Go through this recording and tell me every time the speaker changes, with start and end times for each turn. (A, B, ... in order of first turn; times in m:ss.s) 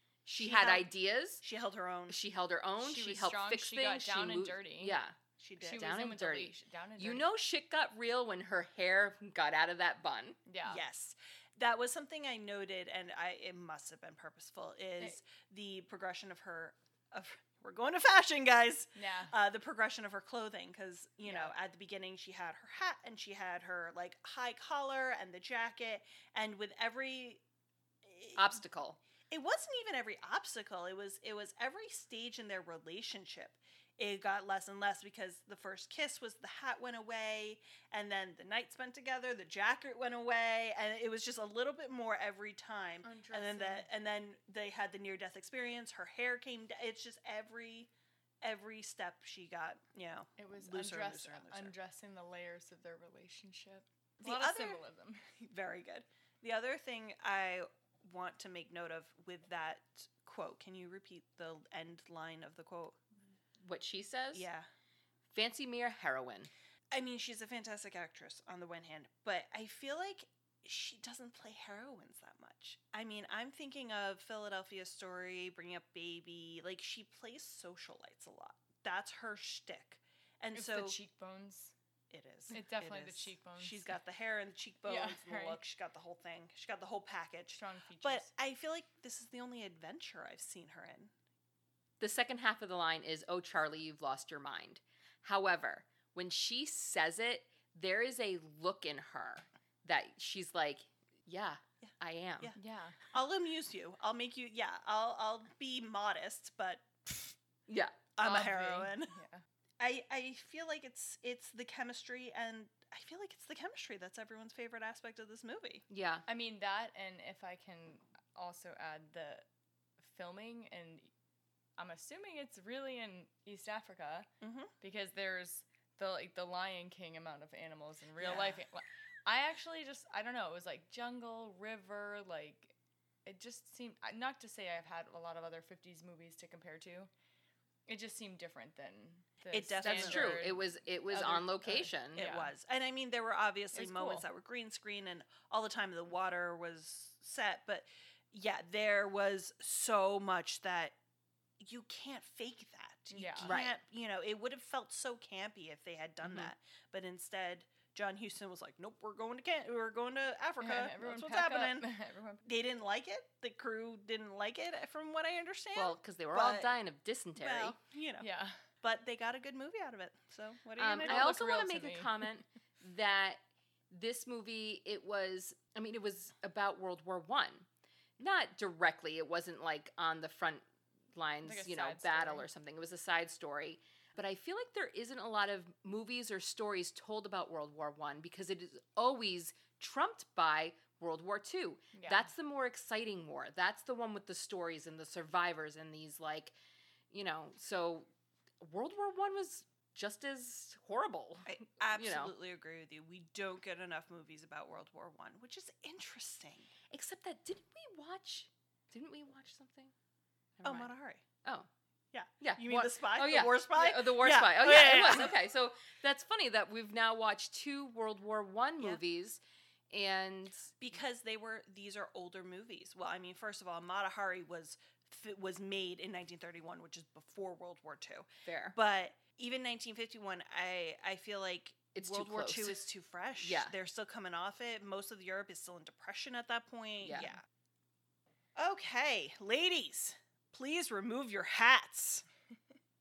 0:00.2-0:01.4 A
0:00.4-0:00.9 B
0:01.4-0:02.2 B
0:02.1-0:10.4 A
0:02.8-0:05.0 C
0:05.4-0:05.9 B
0:05.6-0:07.3 C
0:10.4-0:10.8 C
0:10.6-0:27.4 B
0:18.9-0:19.3 C
0:21.2-0:21.5 C
0:28.0-0:28.5 B
0:28.3-0:29.0 A
0:29.3-0:47.9 B
0:43.0-0:43.9 C
0:48.4-0:51.7 B
0:50.4-0:55.2 C
0:54.2-0:54.8 B
0:55.4-1:03.0 B
1:03.6-1:04.5 A
1:04.3-1:04.6 B
1:05.3-1:06.5 A
1:06.9-1:21.0 B
1:20.5-1:21.7 C
1:22.1-1:31.1 B
1:22.5-1:23.9 C
1:24.8-1:25.6 C
1:27.5-1:28.3 C
1:32.0-1:42.5 A
1:41.8-1:42.6 B
1:42.5-1:43.0 C
1:43.1-1:47.4 B
1:47.7-1:48.1 A
1:48.2-1:49.2 B
1:48.2-1:49.4 C
1:49.8-1:55.8 B
1:55.9-1:56.2 A
1:56.3-1:59.4 C
2:00.0-2:01.1 C
2:01.8-2:04.3 C
2:04.4-2:04.7 B
2:04.8-2:12.7 C
2:08.2-2:08.6 B
2:13.2-2:17.1 C
2:17.9-2:22.5 C
2:19.5-2:20.5 B
2:19.8-2:22.3 A
2:22.2-2:31.0 B
2:23.7-2:24.2 C
2:31.6-2:41.9 B
2:33.1-2:33.6 C
2:33.4-2:33.7 A
2:36.2-2:36.5 A
2:40.6-2:42.4 C
2:42.4-2:46.8 B
2:45.7-2:47.8 A
2:47.4-2:48.3 B
2:48.2-2:48.6 C
2:48.8-2:51.4 B
2:50.8-2:57.7 A
2:51.0-2:52.3 C
2:58.2-3:16.5 A
3:01.4-3:02.5 C
3:11.9-3:12.3 C
3:17.1-3:18.1 A
3:18.6-3:22.3 A
3:21.4-3:26.7 B
3:26.9-3:29.9 A
3:30.6-3:30.9 A
3:30.6-3:31.2 B
3:31.4-3:31.7 A
3:32.1-3:35.4 B
3:32.4-3:40.7 A
3:40.8-3:57.4 B
3:48.4-3:48.8 A
3:51.9-3:52.8 A
3:53.4-3:53.7 A
3:57.0-3:57.4 A
3:58.6-4:02.2 B